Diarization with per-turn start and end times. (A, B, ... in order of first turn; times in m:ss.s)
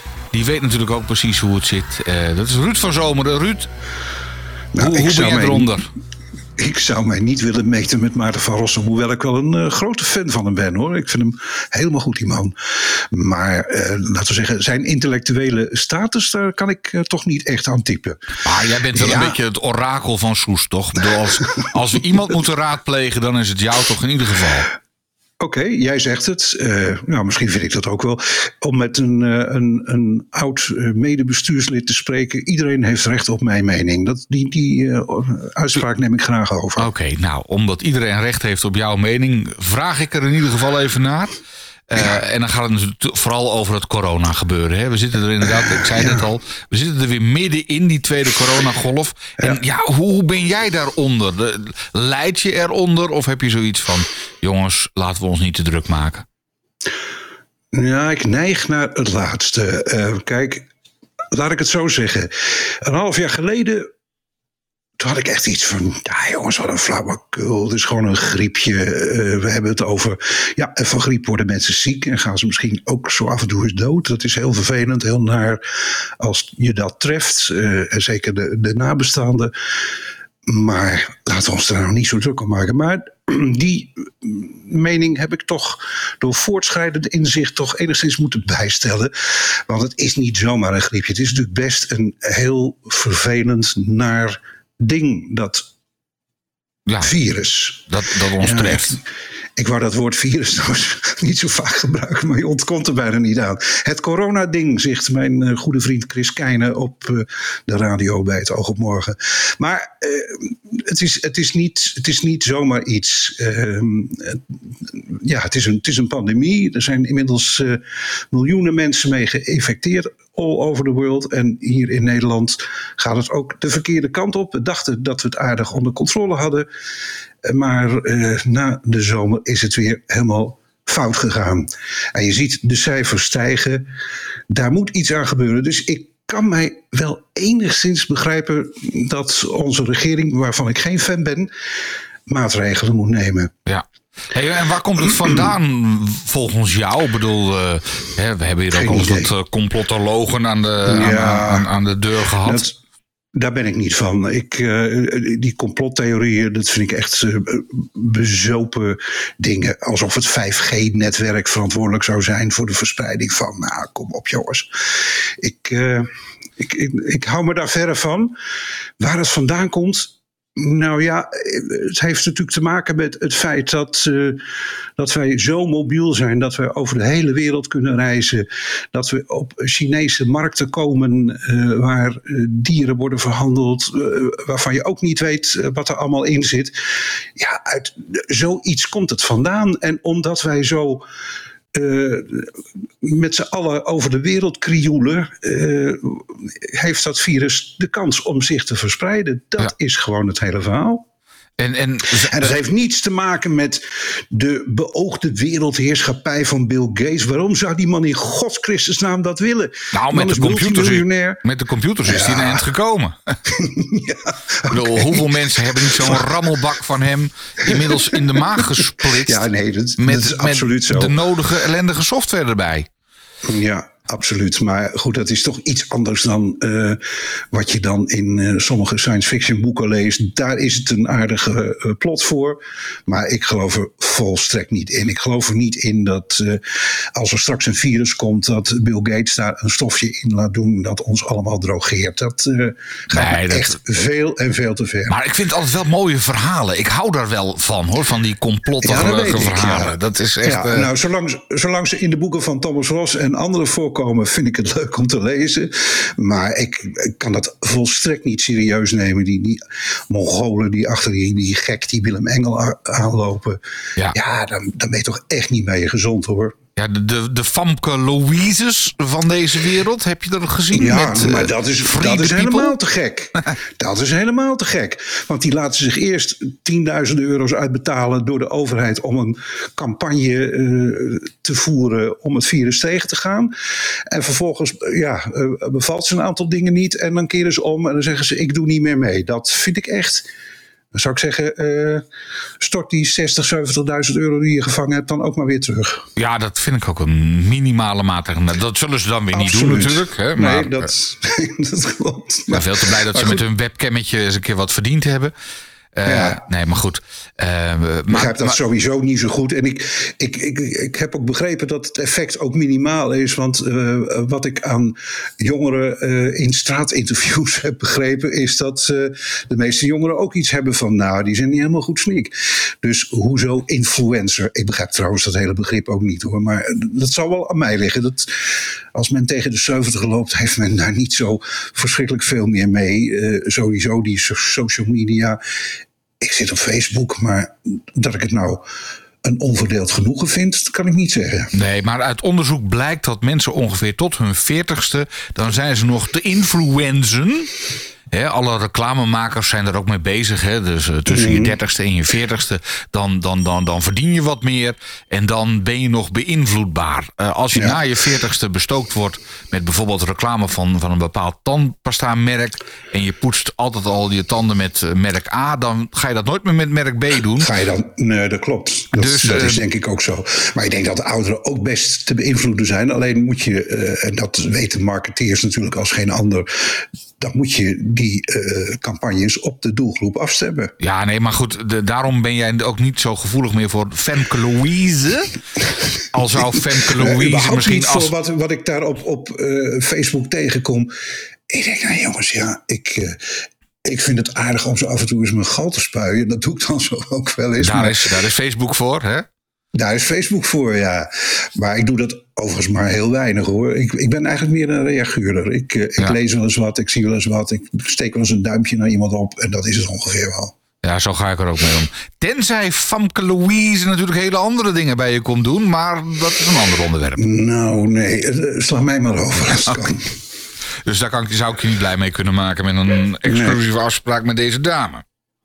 0:00.3-0:03.7 A
0:04.7-0:05.7 B
0:04.8-0:05.9 A
0:06.6-0:18.2 B
0:18.4-0:24.7 A
0:18.9-0:19.4 B
0:25.4-0:36.9 B
0:36.8-0:41.4 A
0:41.9-0:56.3 A
0:57.7-1:00.7 B
1:01.3-1:03.9 B
1:05.0-1:15.6 B
1:16.2-1:19.5 B
1:20.5-1:35.6 B
1:37.0-1:39.0 B
1:37.9-1:39.0 A
1:39.6-2:06.7 B
2:07.4-2:13.9 B
2:14.5-2:21.5 B
2:22.3-2:23.5 B
2:23.7-2:32.7 A
2:28.7-2:29.3 B
2:30.9-2:31.7 B
2:32.4-2:32.8 B
2:33.3-2:48.4 B
2:49.0-2:54.5 B
2:55.0-3:11.0 B
3:11.7-3:21.0 B
3:21.6-3:22.6 A
3:22.1-3:31.4 B
3:29.9-3:33.4 A
3:32.0-3:32.6 B
3:33.4-3:36.6 B
3:34.7-3:39.5 A
3:37.6-3:41.2 B
3:40.0-3:42.9 A
3:43.4-4:05.2 B
4:03.1-4:03.8 A
4:05.1-4:10.9 A
4:08.8-4:23.6 B
4:24.1-4:26.6 B
4:26.8-4:32.8 A
4:30.7-4:43.5 B
4:44.1-4:50.3 B
4:50.9-4:52.1 B
4:52.6-4:56.1 B
4:56.2-5:00.9 A
4:59.3-5:03.4 B
5:02.5-5:05.3 A
5:05.9-5:08.6 A
5:06.1-5:06.4 B
5:08.1-5:35.4 B
5:36.2-5:38.6 B
5:39.2-5:41.5 B
5:41.5-5:47.5 A
5:48.1-6:07.5 A
5:51.1-5:51.6 B
6:07.4-6:20.7 B
6:08.9-6:09.6 A
6:20.8-6:25.3 A
6:26.1-6:28.1 A
6:26.4-6:30.9 B
6:31.5-6:38.1 B
6:37.6-6:39.3 A
6:39.7-6:50.5 B
6:50.8-6:57.2 A
6:57.2-7:00.2 B
7:00.8-7:05.0 A
7:03.3-7:03.6 B